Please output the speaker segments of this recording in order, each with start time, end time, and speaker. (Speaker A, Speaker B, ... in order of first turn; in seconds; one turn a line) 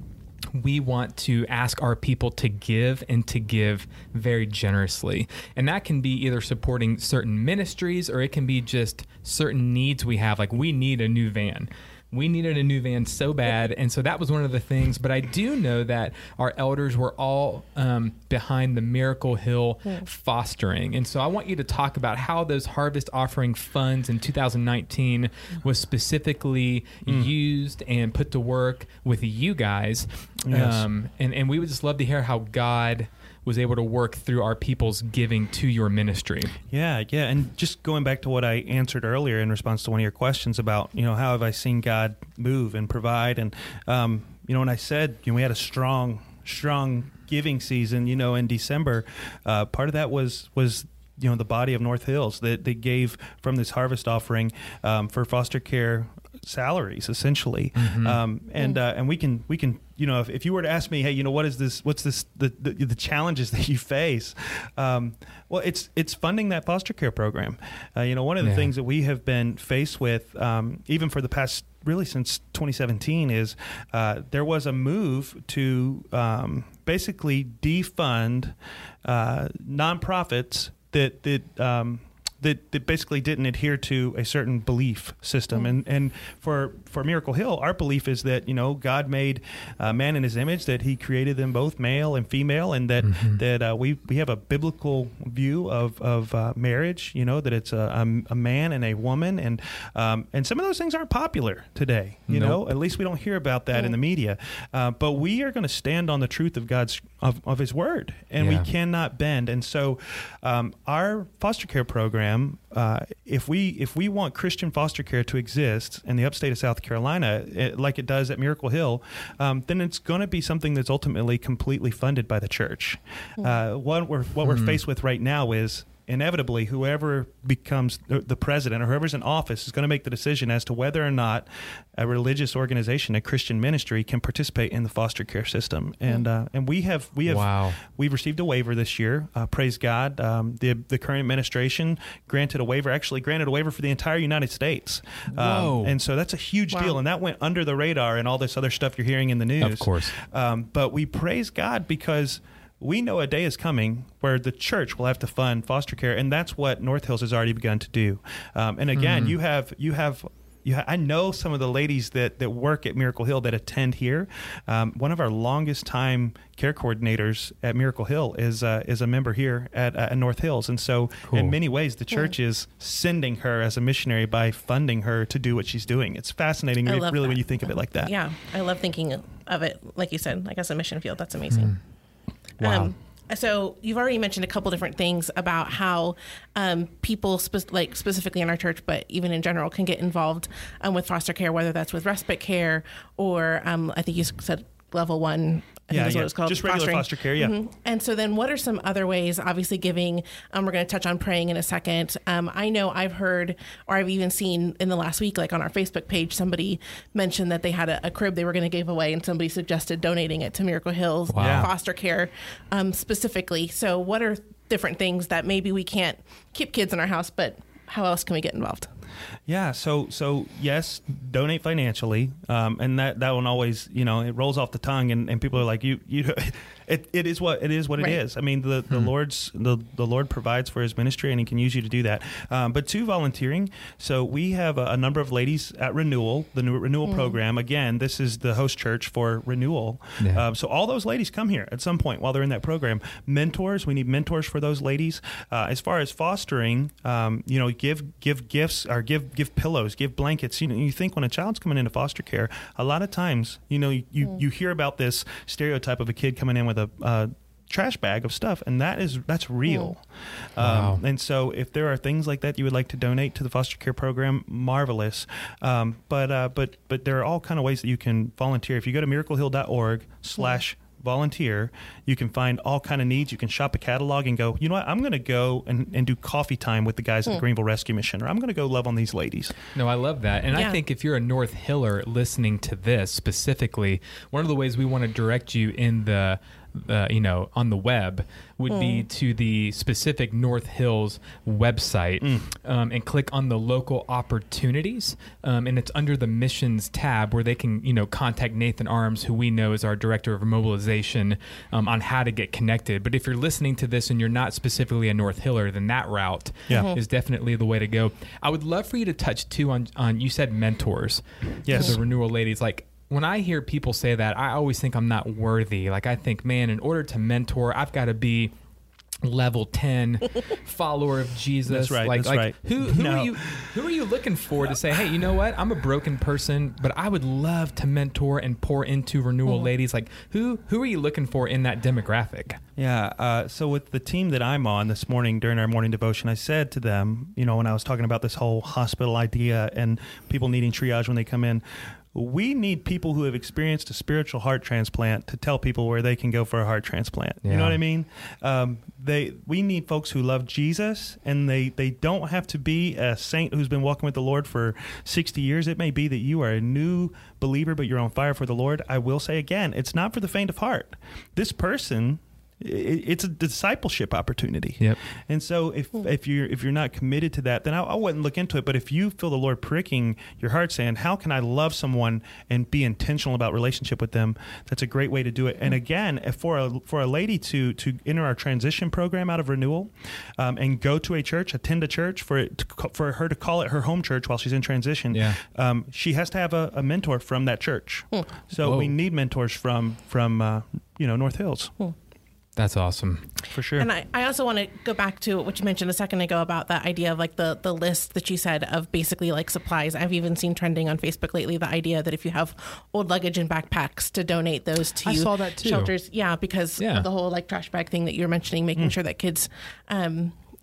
Speaker A: 0.5-36.6
Speaker B: 30.5-30.9
Speaker B: 36.7-178.1
Speaker A: 57.8-58.2
Speaker A: 68.4-68.7
Speaker A: 93.0-93.4
Speaker A: 102.3-102.6
Speaker A: 108.4-108.7
Speaker A: 124.4-124.8
Speaker A: 137.3-137.8
Speaker A: 145.3-146.0
Speaker A: 149.6-150.1
Speaker A: 159.0-159.3
Speaker A: 171.3-171.6
Speaker C: 176.8-177.4
Speaker C: 178.0-181.8
Speaker A: 181.5-181.8
Speaker A: 182.6-182.9
Speaker C: 182.6-218.9
Speaker B: 195.9-197.5
Speaker A: 211.3-211.7
Speaker B: 211.4-211.7
Speaker B: 219.5-279.6
Speaker C: 237.1-237.3
Speaker A: 240.2-240.5
Speaker A: 260.6-261.0
Speaker A: 279.8-318.5
Speaker C: 280.5-280.8
Speaker C: 288.7-289.1
Speaker B: 292.2-292.5
Speaker B: 306.7-306.9
Speaker C: 306.7-307.0
Speaker B: 311.6-312.0
Speaker A: 319.2-332.6
Speaker B: 321.7-323.8
Speaker B: 332.8-341.6
Speaker B: 342.1-391.7
Speaker A: 347.4-347.8
Speaker A: 385.1-385.4
Speaker A: 388.6-388.9
Speaker A: 392.6-393.3
Speaker B: 393.5-393.9
Speaker C: 393.8-410.4
Speaker A: 405.0-405.9
Speaker A: 406.8-407.1